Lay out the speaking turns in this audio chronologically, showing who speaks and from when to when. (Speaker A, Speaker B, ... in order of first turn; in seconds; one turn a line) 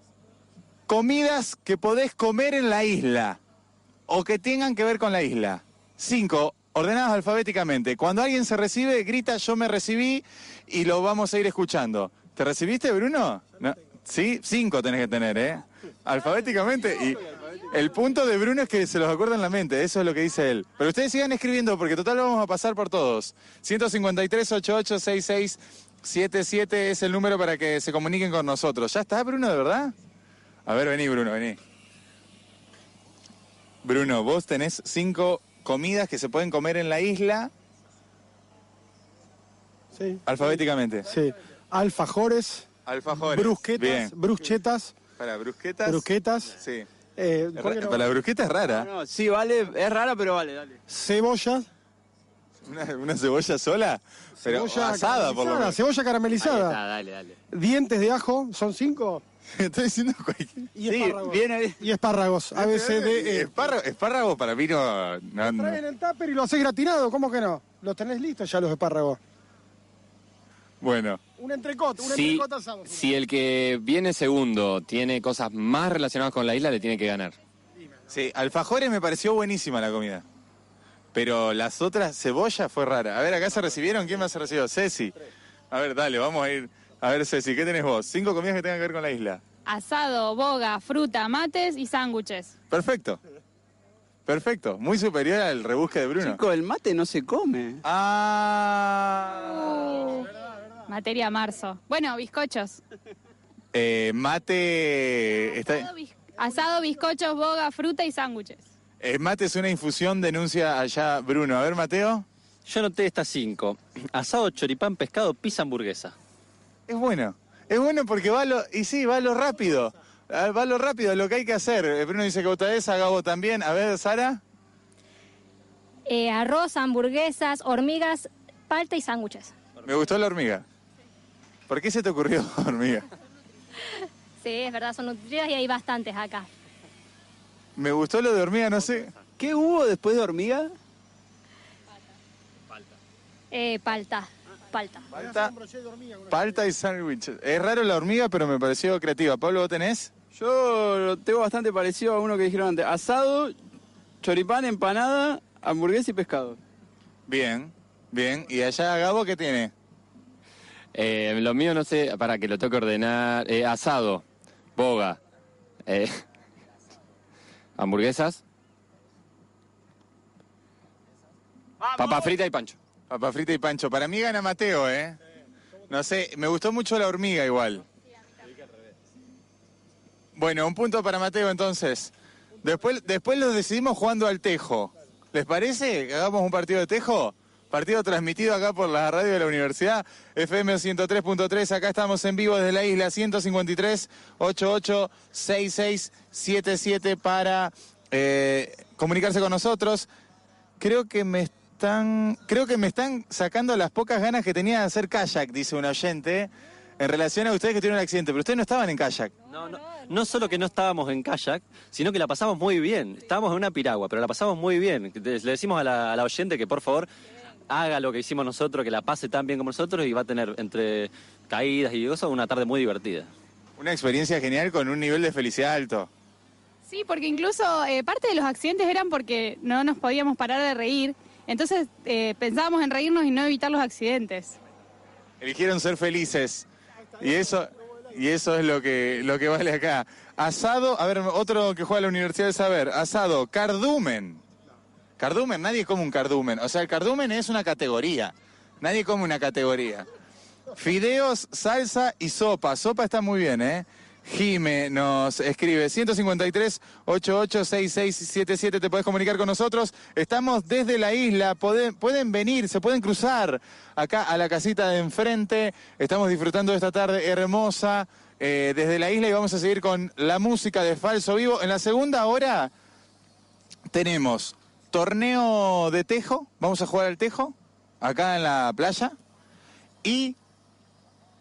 Speaker A: 0.9-3.4
Speaker A: 4.1-29.9
Speaker A: 30.6-31.6
Speaker A: 33.8-37.5
Speaker B: 39.9-42.6
Speaker A: 40.2-41.1
Speaker A: 42.9-44.1
Speaker B: 43.2-44.9
Speaker A: 45.2-46.9
Speaker B: 45.8-46.5
Speaker B: 47.2-48.1
Speaker A: 47.5-48.9
Speaker C: 48.7-50.8
Speaker B: 50.9-51.7
Speaker A: 52.6-55.8
Speaker B: 54.4-56.8
Speaker D: 56.4-57.4
Speaker B: 57.5-59.2
Speaker A: 59.5-61.5
Speaker B: 60.7-63.6
Speaker A: 62.5-65.8
Speaker B: 65.4-69.2
Speaker A: 70.8-71.2
Speaker B: 71.4-73.1
Speaker E: 72.0-77.3
Speaker A: 78.1-80.2
Speaker A: 81.1-85.1
Speaker A: 85.7-89.4
Speaker F: 89.7-92.5
Speaker A: 92.7-93.2
Speaker A: 94.2-96.4
Speaker C: 96.2-97.8
Speaker A: 97.8-99.6
Speaker F: 99.6-100.3
Speaker F: 100.9-102.8
Speaker A: 103.7-105.9
Speaker F: 105.9-108.6
Speaker A: 109.0-112.2
Speaker D: 112.7-116.1
Speaker A: 116.9-124.4
Speaker G: 126.1-129.5
Speaker A: 129.8-130.6
Speaker A: 131.7-133.0
Speaker G: 134.4-136.5
Speaker A: 137.8-139.1
Speaker C: 139.4-140.7
Speaker G: 143.5-145.1
Speaker A: 145.1-145.5
Speaker B: 145.1-146.7
Speaker A: 146.3-150.1
Speaker C: 150.3-153.5
Speaker C: 154.2-156.6
Speaker A: 157.3-159.7
Speaker E: 160.9-164.2
Speaker E: 164.8-165.2
Speaker E: 165.9-166.2
Speaker E: 167.8-168.4
Speaker E: 171.9-172.8
Speaker A: 173.1-175.2
Speaker A: 175.9-177.8
Speaker A: 180.3-200.1
Speaker A: 200.8-209.3
Speaker D: 209.5-217.1
Speaker D: 217.7-223.3
Speaker A: 223.8-226.1
Speaker F: 226.9-234.6
Speaker A: 235.4-236.6
Speaker A: 237.2-244.4
Speaker A: 245.2-250.1
Speaker A: 250.7-272.7
Speaker A: 273.9-279.1
Speaker A: 280.0-280.4